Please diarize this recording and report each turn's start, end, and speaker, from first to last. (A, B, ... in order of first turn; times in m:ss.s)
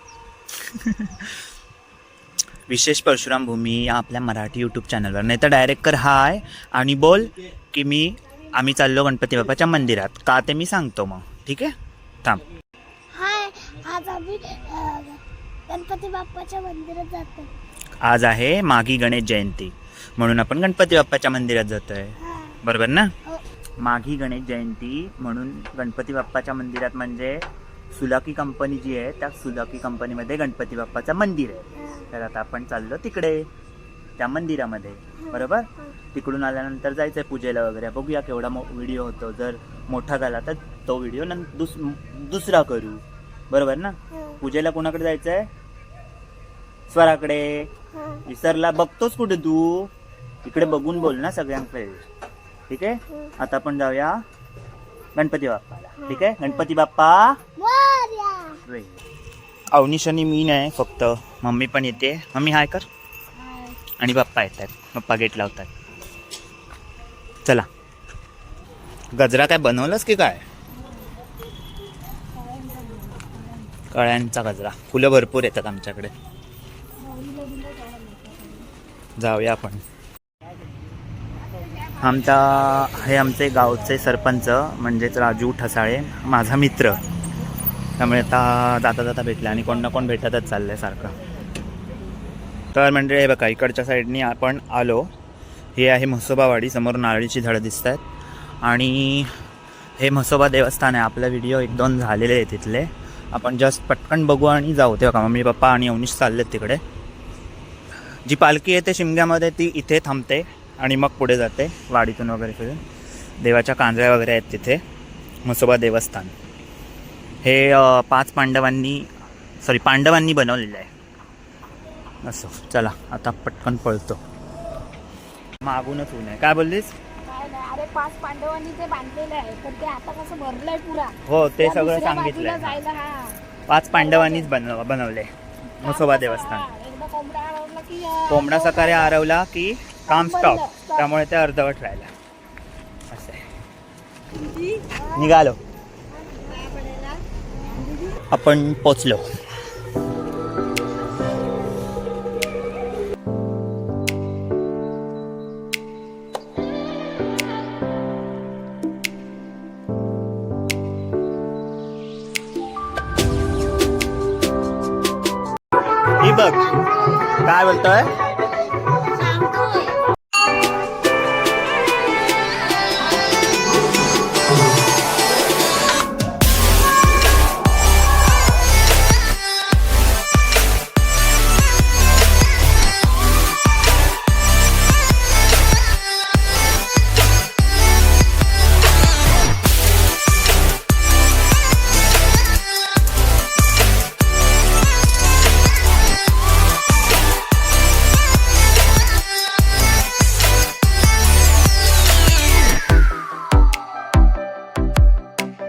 0:00.6-0:01.3 A
0:02.7-0:11.7 A
0:13.1-0:17.5 B
0:18.0-0:23.1 A
0:23.8-0:33.5 A
0:34.2-0:45.5 A
0:46.9-0:47.7 A
0:48.3-0:49.9 A
0:50.4-0:52.0 A
0:52.7-0:54.2 A
0:55.2-0:57.4 A
0:56.0-0:56.4 B
0:57.6-0:58.6 B
0:58.7-0:59.0 A
0:59.7-1:02.9 A
1:04.0-1:05.7 A
1:09.1-1:10.4 A
1:12.5-1:13.4 C
1:13.9-1:16.1 A
1:17.0-1:18.6 C
1:19.2-1:19.8 A
1:22.0-1:27.0 A
1:28.0-1:31.2 A
1:32.7-1:35.1 A
1:35.8-1:38.0 A
1:38.6-1:39.3 A
1:40.0-1:46.8 A
1:48.3-1:52.8 A
1:53.4-1:54.8 A
1:55.4-1:56.3 A
1:57.4-1:59.1 A
1:59.6-2:00.9 A
2:02.2-2:04.2 A
2:05.6-2:06.9 A
2:07.2-2:13.4 C
2:11.2-2:12.8 A
2:13.7-2:16.7 A
2:14.1-2:14.5 C
2:15.8-2:19.1 C
2:18.3-2:22.1 A
2:20.1-2:21.0 C
2:23.1-2:23.4 A
2:24.6-2:24.9 C
2:25.1-2:25.6 A
2:26.4-2:27.2 C
2:28.3-2:29.2 A
2:46.2-2:46.8 A
2:47.4-2:48.2 A
2:49.2-2:50.0 B